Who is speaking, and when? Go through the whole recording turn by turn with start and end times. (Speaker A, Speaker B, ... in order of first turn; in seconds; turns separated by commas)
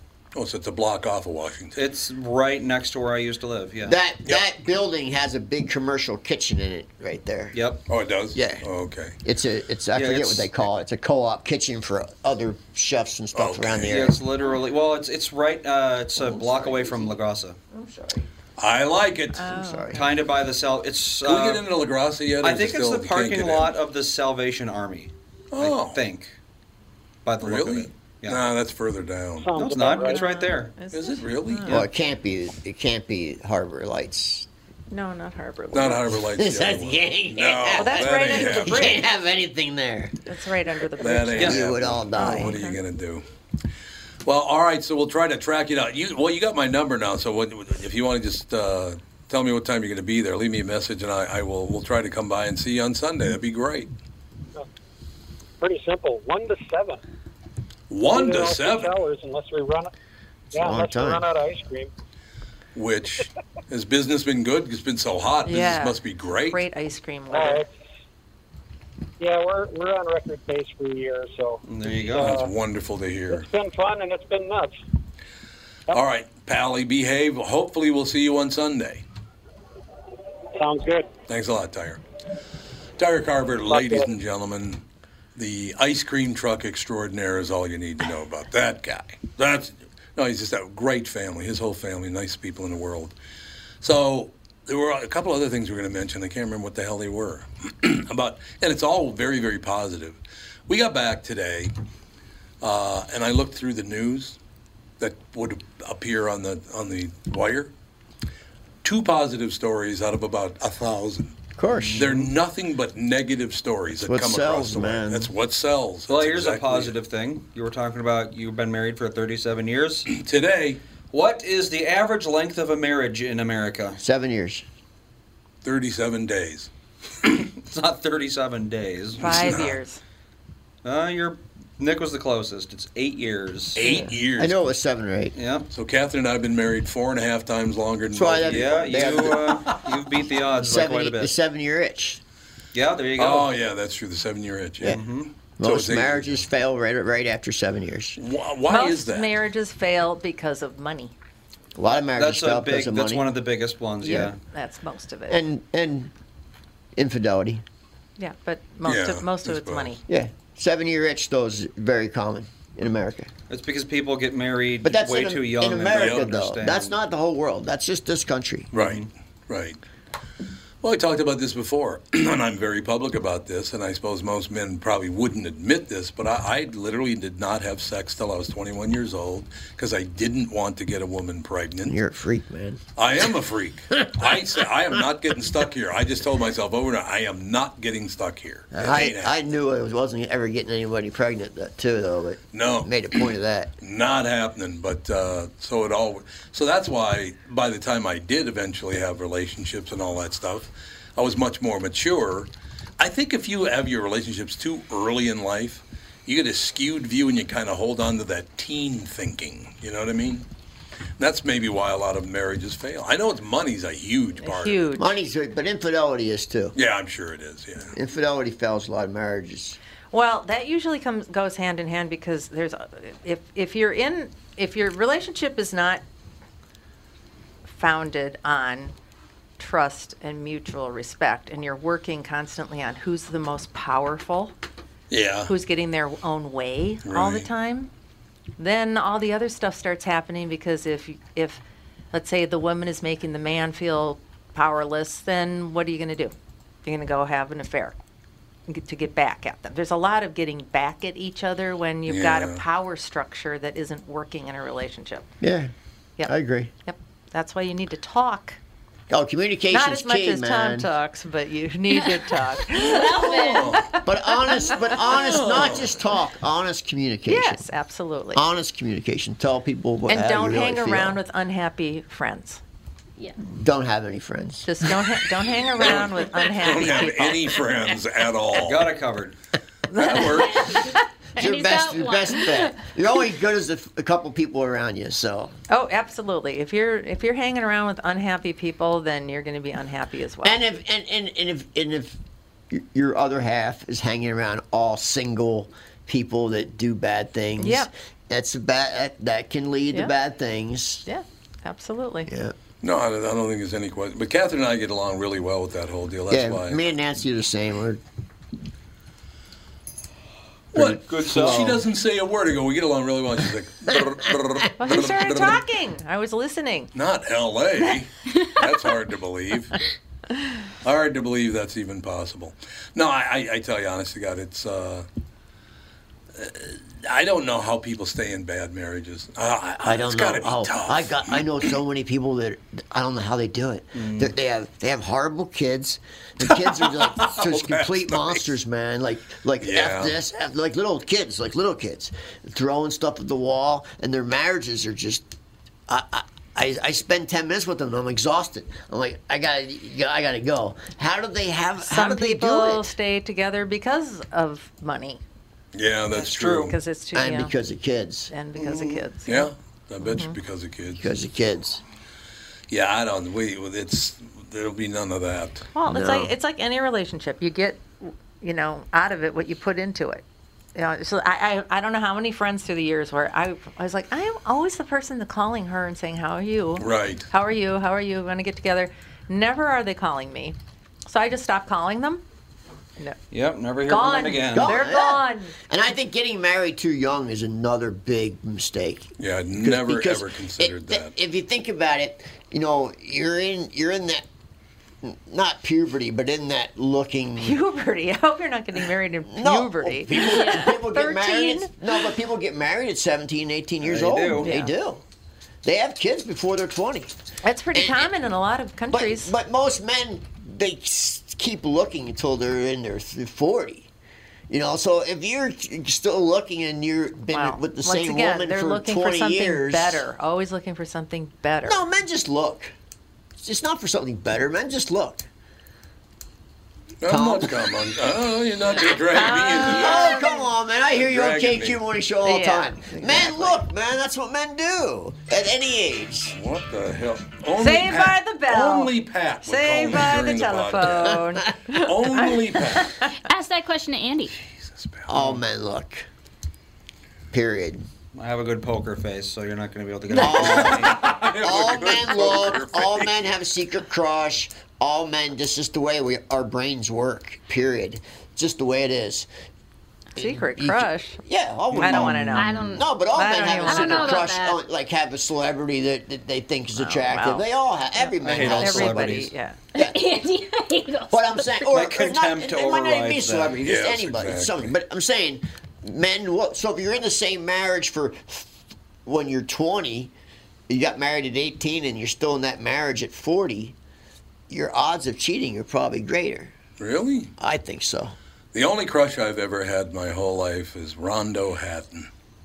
Speaker A: 0.3-1.8, Speaker B: 1.8-4.0, Speaker C: 3.8-7.6, Speaker B: 7.5-7.8, Speaker A: 7.9-9.2, Speaker C: 8.3-8.7, Speaker C: 9.2-14.2, Speaker B: 9.9-10.5, Speaker A: 13.3-14.0, Speaker B: 13.9-17.6, Speaker C: 16.1-18.3, Speaker A: 18.6-19.5, Speaker D: 19.3-20.1, Speaker C: 19.4-20.1, Speaker B: 19.9-21.7, Speaker A: 21.2-23.7, Speaker B: 22.4-26.3, Speaker A: 25.5-26.0, Speaker B: 27.2-28.4, Speaker A: 27.4-29.5, Speaker E: 29.4-30.2, Speaker B: 29.5-30.7, Speaker D: 29.9-31.7, Speaker A: 30.9-31.8, Speaker C: 31.7-34.5, Speaker D: 34.9-36.1, Speaker A: 35.7-39.0, Speaker C: 36.1-40.2, Speaker D: 37.8-39.0, Speaker D: 40.2-41.6, Speaker A: 41.0-43.2, Speaker C: 41.4-42.6, Speaker D: 42.1-42.8, Speaker A: 44.2-53.9, Speaker E: 55.6-57.0, Speaker A: 57.9-58.9, Speaker E: 58.1-59.9, Speaker C: 60.5-61.2, Speaker E: 60.5-61.9, Speaker A: 62.7-66.6, Speaker D: 65.4-67.6, Speaker E: 67.3-67.7, Speaker E: 69.2-72.5, Speaker B: 71.7-72.3, Speaker A: 72.2-73.5, Speaker E: 73.3-74.8, Speaker A: 75.9-79.0, Speaker E: 80.5-81.1, Speaker A: 81.3-82.0, Speaker A: 83.0-84.8, Speaker E: 83.6-84.1, Speaker A: 85.3-93.1, Speaker A: 93.8-101.7, Speaker A: 102.6-104.4, Speaker A: 105.0-107.7, Speaker A: 108.8-111.3, Speaker C: 111.6-112.0, Speaker B: 111.7-112.3, Speaker A: 112.0-116.9, Speaker C: 114.0-115.3, Speaker B: 116.1-120.1, Speaker A: 120.1-120.8, Speaker B: 121.1-124.0, Speaker C: 124.0-124.6, Speaker A: 125.6-126.7, Speaker B: 127.4-129.7, Speaker D: 129.2-130.0, Speaker A: 129.2-129.7, Speaker B: 130.8-133.8, Speaker A: 133.7-134.6, Speaker D: 133.8-134.1, Speaker C: 134.4-135.3, Speaker B: 135.3-135.7, Speaker A: 135.7-138.7, Speaker C: 138.1-139.7, Speaker B: 138.4-141.3, Speaker C: 140.6-142.2, Speaker B: 142.7-143.5, Speaker A: 143.2-145.0, Speaker B: 144.8-145.3, Speaker C: 145.6-148.2, Speaker A: 145.6-146.4, Speaker A: 148.2-149.3, Speaker D: 148.7-151.1, Speaker C: 151.7-153.2, Speaker B: 152.2-154.4, Speaker D: 154.0-155.4, Speaker C: 155.3-156.1, Speaker C: 156.9-157.6, Speaker D: 158.2-160.0, Speaker A: 158.8-159.9, Speaker C: 160.1-163.3, Speaker B: 163.5-166.9, Speaker C: 164.8-168.7, Speaker A: 165.9-166.2, Speaker A: 168.7-169.8, Speaker B: 168.7-169.1, Speaker A: 170.8-181.9, Speaker C: 181.8-182.8, Speaker A: 183.0-189.3, Speaker C: 184.0-184.4, Speaker C: 188.7-193.7, Speaker A: 192.5-192.9, Speaker A: 193.8-210.4, Speaker A: 211.2-214.9, Speaker D: 214.4-215.1, Speaker C: 214.9-216.7, Speaker A: 216.7-217.9, Speaker C: 217.9-219.8, Speaker D: 220.1-226.0, Speaker D: 227.7-228.9, Speaker D: 229.6-234.5, Speaker A: 235.1-235.5, Speaker D: 235.5-237.9, Speaker A: 237.0-237.5, Speaker D: 238.6-241.6, Speaker D: 242.1-247.9, Speaker D: 248.7-255.3, Speaker A: 252.1-252.6, Speaker C: 255.4-255.7, Speaker C: 256.2-256.7, Speaker D: 256.8-258.6, Speaker C: 259.1-260.9, Speaker D: 259.7-265.0, Speaker F: 262.0-263.8, Speaker A: 262.7-263.9, Speaker C: 264.0-267.6, Speaker A: 265.1-266.0, Speaker D: 267.2-268.4, Speaker C: 268.3-271.2, Speaker D: 270.1-272.6, Speaker C: 273.4-274.7, Speaker D: 274.6-277.4, Speaker A: 275.7-278.9, Speaker B: 278.6-279.3, Speaker D: 279.9-280.9, Speaker A: 279.9-280.7, Speaker F: 280.5-282.9, Speaker C: 281.4-285.5, Speaker D: 285.7-290.6, Speaker C: 290.4-292.2, Speaker C: 292.7-301.0, Speaker D: 297.6-297.9, Speaker D: 301.0-302.3, Speaker C: 302.3-302.5, Speaker A: 302.8-306.8, Speaker C: 306.3-308.0, Speaker A: 310.7-315.6, Speaker C: 310.7-311.8, Speaker B: 311.1-311.8, Speaker D: 314.8-316.9, Speaker A: 316.9-319.7, Speaker A: 320.8-325.1, Speaker A: 326.3-331.7, Speaker C: 329.8-345.2, Speaker B: 333.9-334.3, Speaker A: 336.6-338.5, Speaker A: 339.6-340.1, Speaker C: 345.9-352.9, Speaker D: 351.8-355.2, Speaker A: 355.7-356.8, Speaker D: 356.1-357.5, Speaker B: 356.2-356.7, Speaker C: 357.1-358.3, Speaker D: 358.3-359.5, Speaker B: 358.6-359.0, Speaker A: 359.3-361.0, Speaker D: 360.0-360.4, Speaker C: 360.9-361.8, Speaker A: 362.7-366.3, Speaker D: 365.7-370.2, Speaker D: 370.7-382.2, Speaker A: 376.8-377.3, Speaker B: 383.3-384.8, Speaker D: 383.8-385.5, Speaker C: 384.5-394.2, Speaker A: 389.2-391.1, Speaker C: 395.0-397.6, Speaker D: 397.4-401.8, Speaker C: 399.3-405.0, Speaker F: 400.2-400.7, Speaker B: 403.8-404.5, Speaker D: 404.4-404.7, Speaker C: 405.6-407.1, Speaker D: 407.4-409.3, Speaker C: 407.7-408.1, Speaker C: 408.9-413.9, Speaker C: 414.5-420.0, Speaker D: 417.3-421.8, Speaker C: 421.6-422.7, Speaker C: 423.4-425.3, Speaker A: 427.0-430.2, Speaker C: 427.0-427.8, Speaker D: 428.9-430.5, Speaker C: 429.4-436.4, Speaker A: 430.9-431.8, Speaker D: 432.2-433.6, Speaker A: 436.3-442.9, Speaker D: 437.6-438.9, Speaker D: 439.4-443.1, Speaker F: 443.1-444.3, Speaker A: 444.5-445.1, Speaker C: 445.1-446.1, Speaker C: 447.3-447.8, Speaker B: 448.1-451.0, Speaker C: 450.1-459.3, Speaker A: 450.2-453.2, Speaker D: 460.1-461.2, Speaker C: 460.1-470.0, Speaker B: 461.7-462.4, Speaker D: 461.7-464.3, Speaker F: 462.4-462.9, Speaker F: 463.6-464.6, Speaker D: 466.8-469.6, Speaker B: 468.2-469.3, Speaker F: 469.7-471.8, Speaker C: 471.1-478.5, Speaker B: 471.7-473.8, Speaker A: 473.6-474.7, Speaker C: 479.1-480.1, Speaker C: 480.7-483.8, Speaker C: 484.5-486.5, Speaker A: 486.8-487.3, Speaker C: 487.4-488.1, Speaker A: 488.5-492.1